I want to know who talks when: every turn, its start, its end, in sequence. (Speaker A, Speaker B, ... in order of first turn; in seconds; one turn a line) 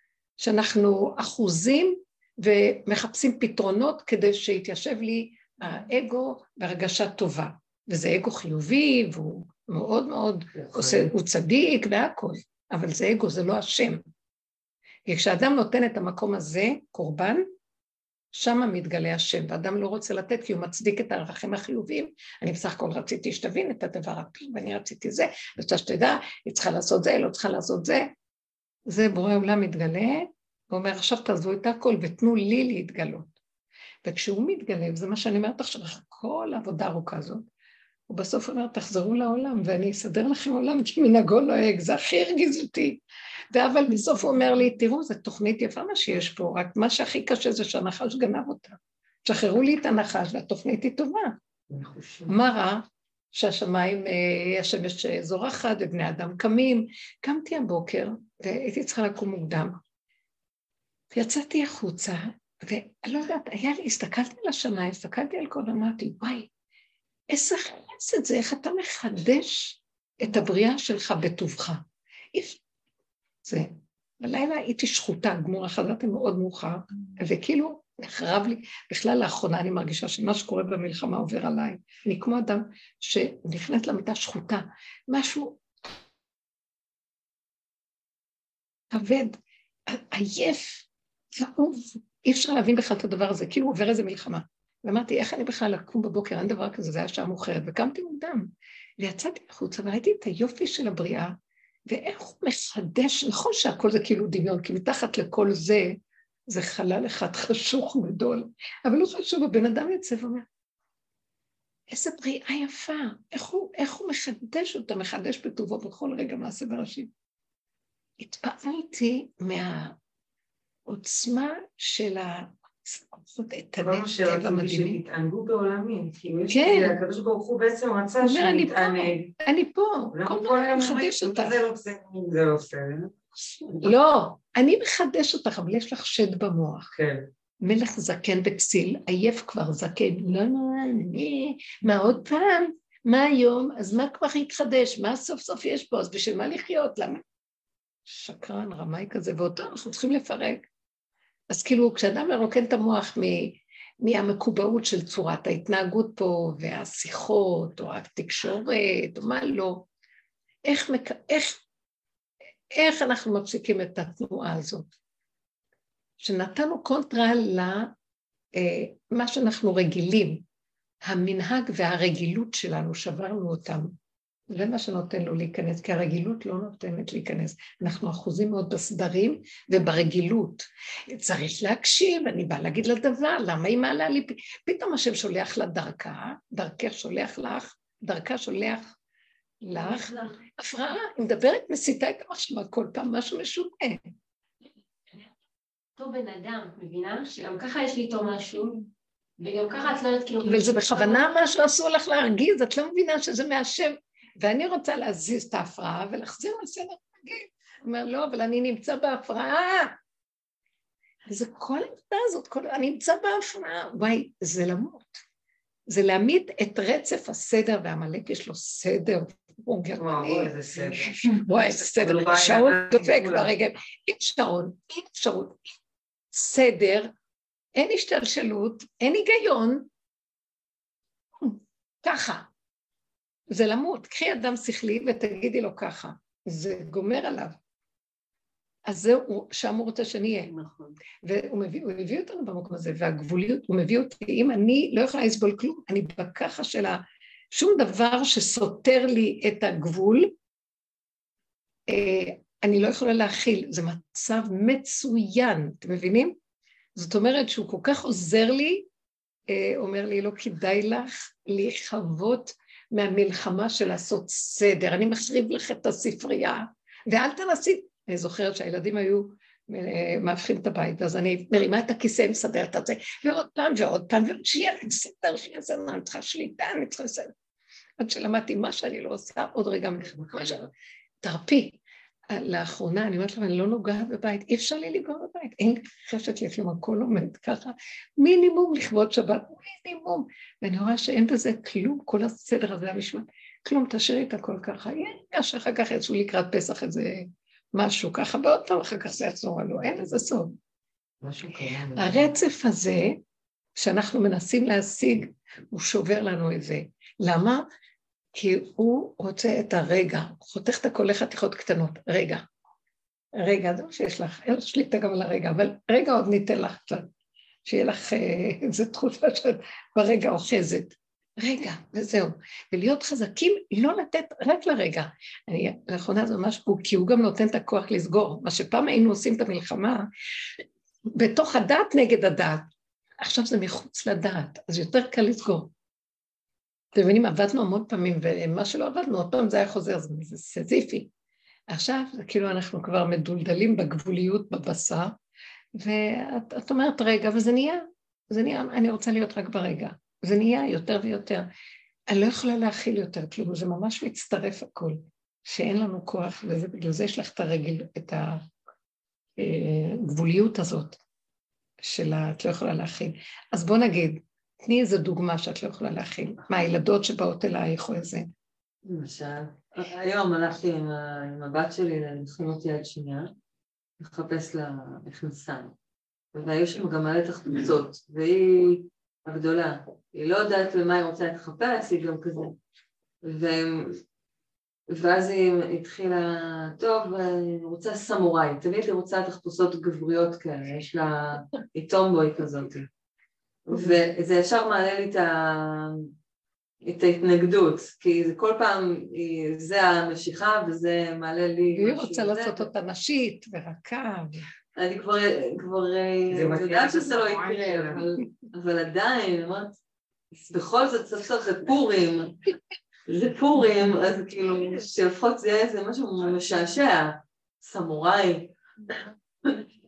Speaker A: 0.4-14.0
Speaker B: 10.6-11.1
Speaker A: 15.1-17.5
Speaker A: 18.3-28.1
Speaker A: 28.9-33.3
Speaker A: 34.0-37.4
Speaker A: 38.1-43.0
Speaker A: 43.5-51.4
Speaker B: 51.7-52.3
Speaker A: 52.3-59.8
Speaker A: 61.1-66.5
Speaker A: 67.3-71.8
Speaker A: 72.3-72.6
Speaker A: 73.4-85.6
Speaker A: 88.9-101.4
Speaker A: 101.9-106.0
Speaker A: 106.5-110.5
Speaker A: 111.9-117.1
Speaker A: 118.2-120.0
Speaker A: 120.9-125.0
Speaker B: 123.8-129.3
Speaker A: 126.5-127.0
Speaker A: 128.2-131.6
Speaker B: 130.1-133.2
Speaker A: 133.8-136.9
Speaker B: 136.9-137.3
Speaker A: 137.6-147.2
Speaker A: 148.1-150.6
Speaker A: 151.5-159.9
Speaker A: 160.7-161.6
Speaker A: 162.7-164.8
Speaker A: 166.2-167.9
Speaker A: 168.6-170.4
Speaker A: 171.1-173.9
Speaker A: 174.5-188.9
Speaker A: 189.6-194.0
Speaker C: 189.8-190.4
Speaker C: 196.0-201.5
Speaker A: 200.4-210.0
Speaker A: 211.3-215.2
Speaker A: 215.9-225.6
Speaker B: 220.0-223.5
Speaker A: 226.3-227.1
Speaker A: 227.8-229.9
Speaker A: 231.4-232.5
Speaker A: 233.5-237.6
Speaker A: 238.9-240.5
Speaker D: 240.5-240.9
Speaker A: 241.2-250.3
Speaker A: 251.9-256.4
Speaker A: 257.0-258.9
Speaker A: 259.5-277.3
Speaker A: 278.0-280.7
Speaker A: 281.2-281.8
Speaker A: 282.3-300.6
Speaker B: 301.2-302.3
Speaker A: 301.9-303.2
Speaker A: 303.8-307.6
Speaker A: 308.4-312.4
Speaker A: 313.4-317.1
Speaker A: 317.7-330.1
Speaker A: 331.1-332.6
Speaker A: 333.2-335.7
Speaker A: 336.9-341.1
Speaker A: 341.7-345.2
Speaker A: 345.8-351.5
Speaker A: 352.1-358.4
Speaker A: 359.4-361.0
Speaker A: 361.8-368.3
Speaker D: 368.9-373.3
Speaker D: 374.0-375.7
Speaker D: 376.3-382.6
Speaker D: 383.2-384.0
Speaker D: 384.9-392.9
Speaker D: 393.7-396.1
Speaker D: 396.8-402.7
Speaker A: 401.7-404.4
Speaker D: 404.8-409.8
Speaker B: 406.3-408.0
Speaker D: 410.5-412.4
Speaker D: 413.1-419.6